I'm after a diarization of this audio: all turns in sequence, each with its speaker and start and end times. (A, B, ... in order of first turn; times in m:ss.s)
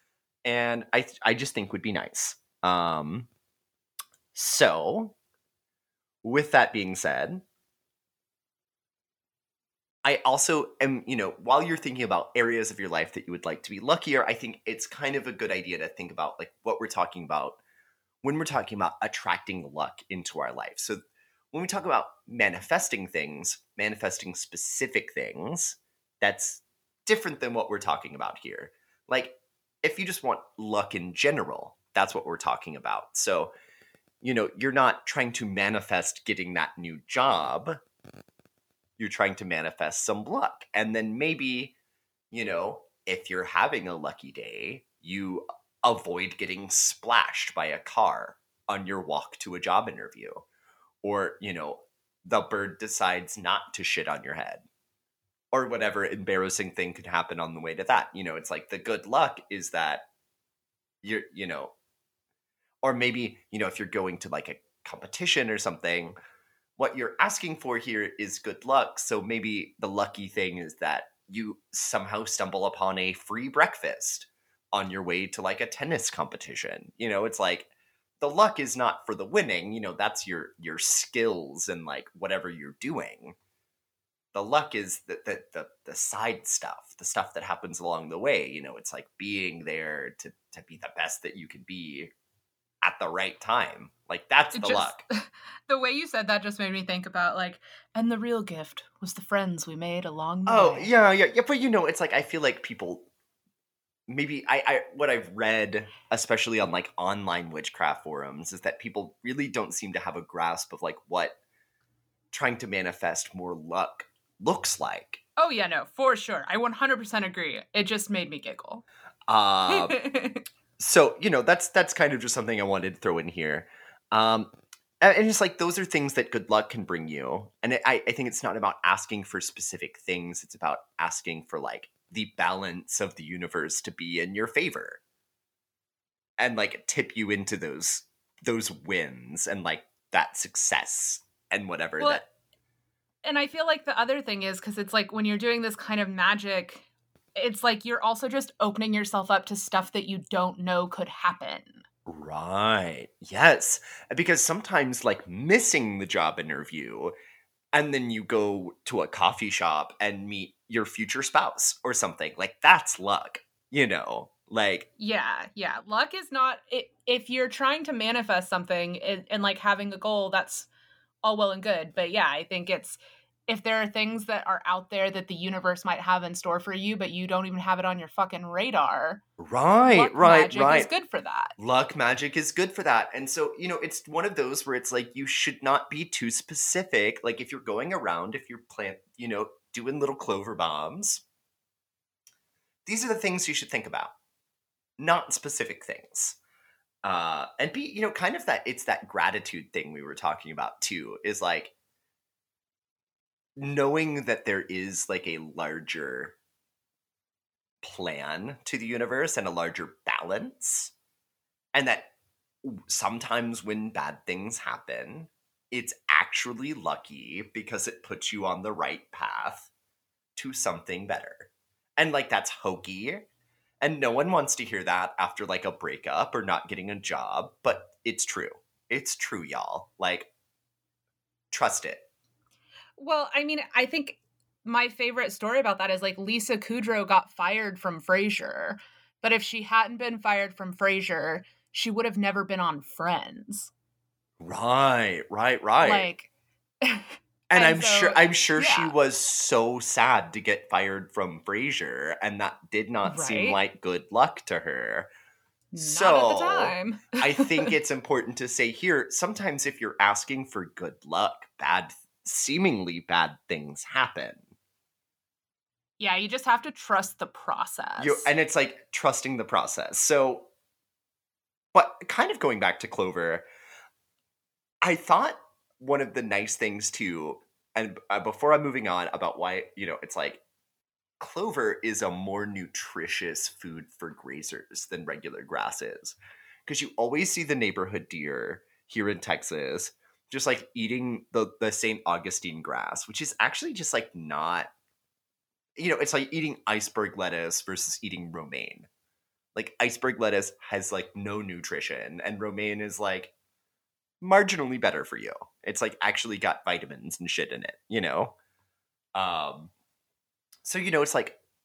0:00.4-0:03.3 A
0:04.3-0:05.1 A
0:06.2-0:07.4 A
0:10.0-0:17.6 A
0:18.2-0:21.0 A
0:21.5-0:33.5 A
0:34.2-0:37.8 A
0:39.0-0:41.7 A
0:42.3-0:50.4 A
0:51.0-0:54.6 A
0:55.5-1:00.1 A
1:01.0-1:01.7 A
1:02.8-1:06.1 A
1:06.8-1:17.7 A
1:18.2-1:23.4 A
1:24.3-1:32.1 A
1:32.8-1:35.0 A
1:34.5-1:40.9 B
1:40.4-1:43.1 A
1:44.1-1:51.4 A
1:52.3-1:55.2 A
1:55.4-1:58.8 B
1:59.3-2:00.0 A
1:59.7-2:00.4 B
2:00.8-2:15.0 A
2:16.4-2:22.2 A
2:23.2-2:31.8 B
2:32.0-2:37.1 A
2:37.7-2:44.9 A
2:45.0-2:50.7 B
2:51.2-2:59.2 B
2:59.4-3:00.9 A
2:59.8-3:01.5 B
3:01.6-3:11.2 A
3:12.8-3:14.1 A
3:15.0-3:16.4 A
3:17.0-3:21.7 A
3:23.6-3:26.4 A
3:27.8-3:30.9 A
3:31.7-3:32.1 A
3:32.6-3:39.7 A
3:40.4-3:43.3 A
3:43.8-3:50.3 A
3:51.5-3:52.0 A
3:53.0-4:03.7 B
4:04.4-4:06.1 A
4:05.8-4:06.3 B
4:06.8-4:08.9 B
4:07.5-4:15.1 A
4:13.0-4:13.6 B
4:15.7-4:17.7 B
4:15.8-4:24.4 A
4:26.0-4:28.3 B
4:28.0-4:30.5 A
4:31.7-4:33.4 A
4:34.8-4:40.4 A
4:41.2-4:54.7 A
4:55.8-4:58.9 A
4:59.5-5:03.3 A
5:04.2-5:08.4 A
5:09.1-5:09.7 A
5:10.6-5:11.4 A